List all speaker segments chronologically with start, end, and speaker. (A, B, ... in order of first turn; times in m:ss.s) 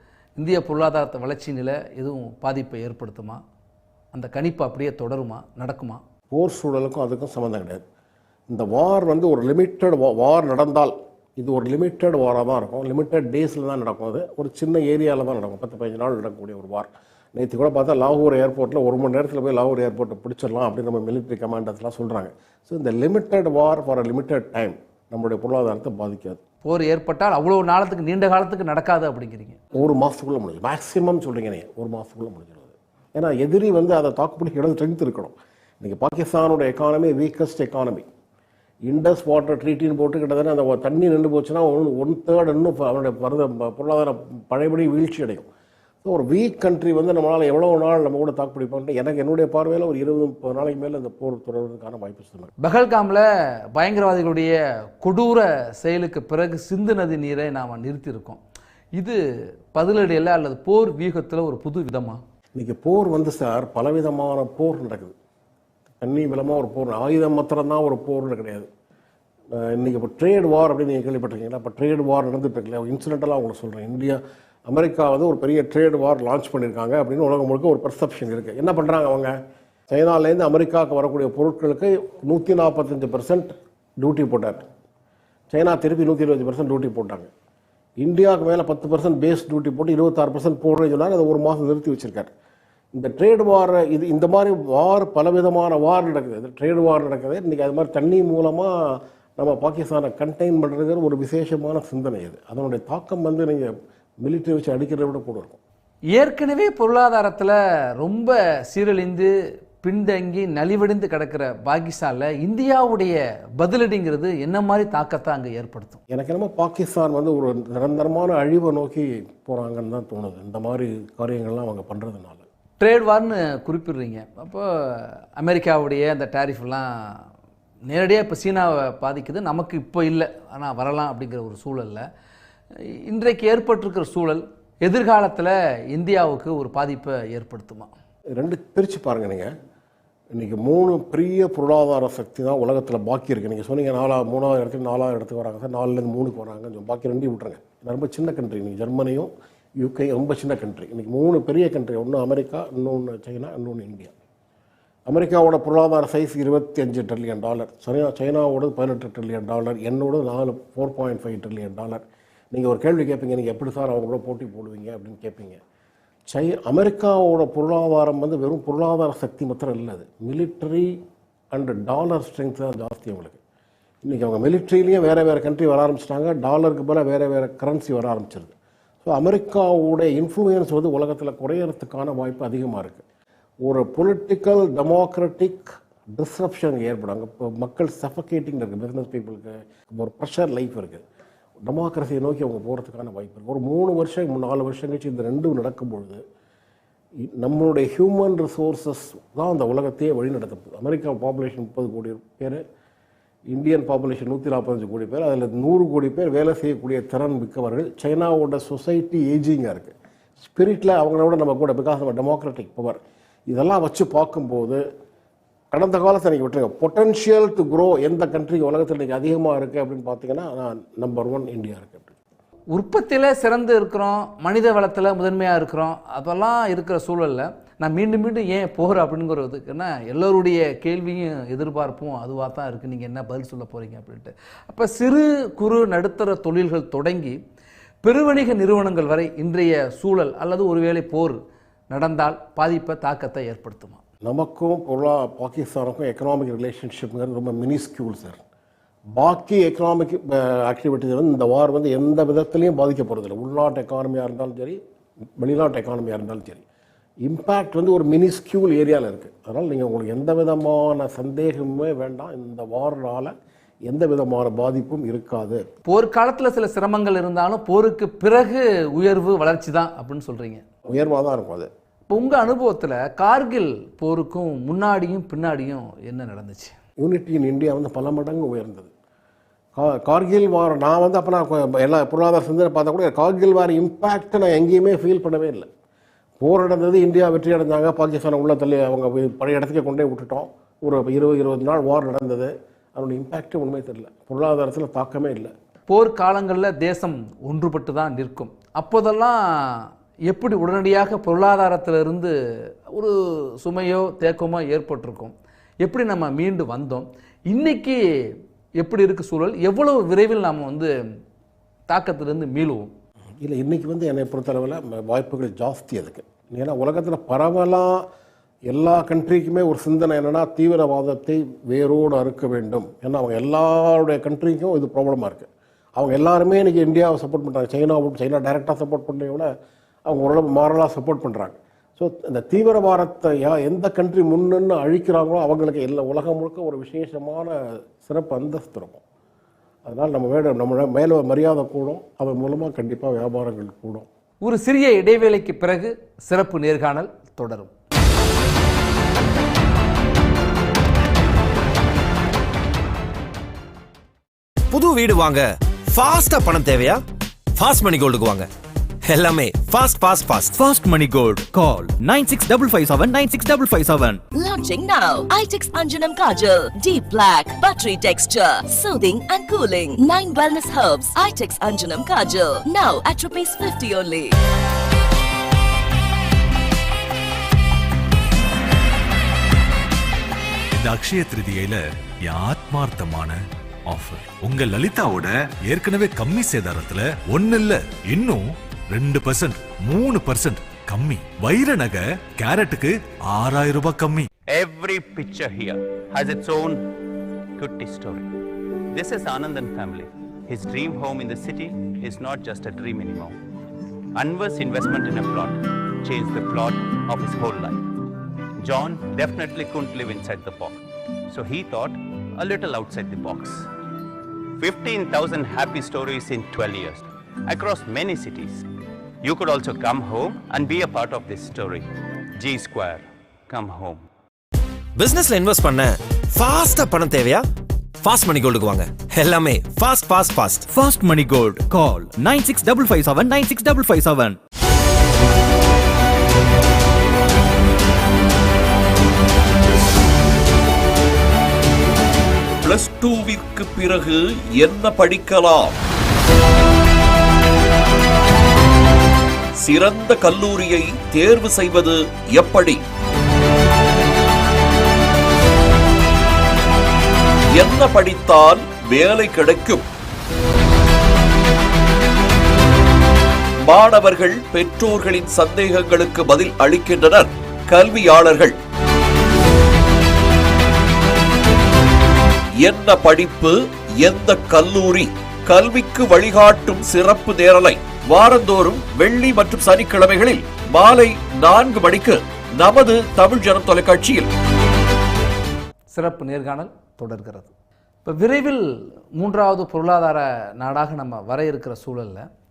0:00.4-0:03.4 A
0:04.1-0:06.0 A
0:06.3-0:07.8 B
0:08.5-0:26.4 B
0:26.6-0:29.6 A
0:29.7-0:38.1 B
0:38.8-0:45.5 B
0:46.0-0:52.5 B
0:52.6-0:58.4 A
0:59.7-1:02.2 A
1:02.5-1:05.1 B
1:06.0-1:08.7 B
1:09.6-1:19.3 B
1:19.9-1:24.6 B
1:25.5-1:27.3 B
1:28.0-1:32.3 B
1:32.9-1:43.7 B
1:44.2-1:45.6 B
1:46.2-1:49.3 A
1:49.8-1:56.0 A
1:56.1-2:02.4 B
2:02.8-2:07.2 A
2:07.9-2:12.0 A
2:12.9-2:17.9 A
2:18.3-2:19.5 B
2:20.3-2:34.1 B
2:35.1-2:45.6 B
2:46.3-2:51.0 B
2:51.5-2:53.4 B
2:54.0-3:03.0 B
3:03.6-3:11.0 B
3:11.6-3:16.2 B
3:17.4-3:22.6 B
3:23.5-3:34.8 B
3:35.7-3:42.1 B
3:42.7-3:57.4 A
3:58.0-4:01.4 A
4:01.9-4:04.0 A
4:04.2-4:08.4 B
4:09.1-4:14.8 B
4:15.4-4:16.6 B
4:17.2-4:23.3 B
4:23.8-4:25.6 B
4:25.8-4:30.6 A
4:30.9-4:31.7 B
4:32.1-4:36.8 A
4:37.0-4:38.9 B
4:39.8-4:45.7 B
4:46.4-4:55.5 B
4:55.9-5:02.3 A
5:02.9-5:08.0 A
5:08.8-5:10.9 A
5:11.9-5:12.9 A
5:13.4-5:18.1 B
5:18.7-5:29.5 B
5:30.0-5:39.0 B
5:39.8-5:44.1 B
5:44.4-5:47.7 A
5:54.7-5:57.0 C
5:57.6-5:58.5 C
5:59.0-6:00.6 C
6:00.6-6:04.2 D
6:04.3-6:14.3 E
6:20.7-6:23.4 F
6:23.9-6:34.3 F
6:34.5-6:36.8 G
6:37.6-6:38.3 G
6:38.9-6:43.3 G
6:44.2-6:47.9 G
6:48.6-6:50.8 G
6:51.3-6:53.6 G
6:54.6-6:58.6 G
6:59.2-7:01.8 G
7:02.4-7:04.0 G
7:05.0-7:07.4 C
7:08.0-7:10.6 C
7:10.7-7:14.4 D
7:22.6-7:25.8 H
7:29.6-7:32.8 H
7:37.5-7:39.8 H
7:43.6-7:48.6 H
7:52.6-8:04.3 H
8:05.9-8:07.5 A
8:08.0-8:12.3 A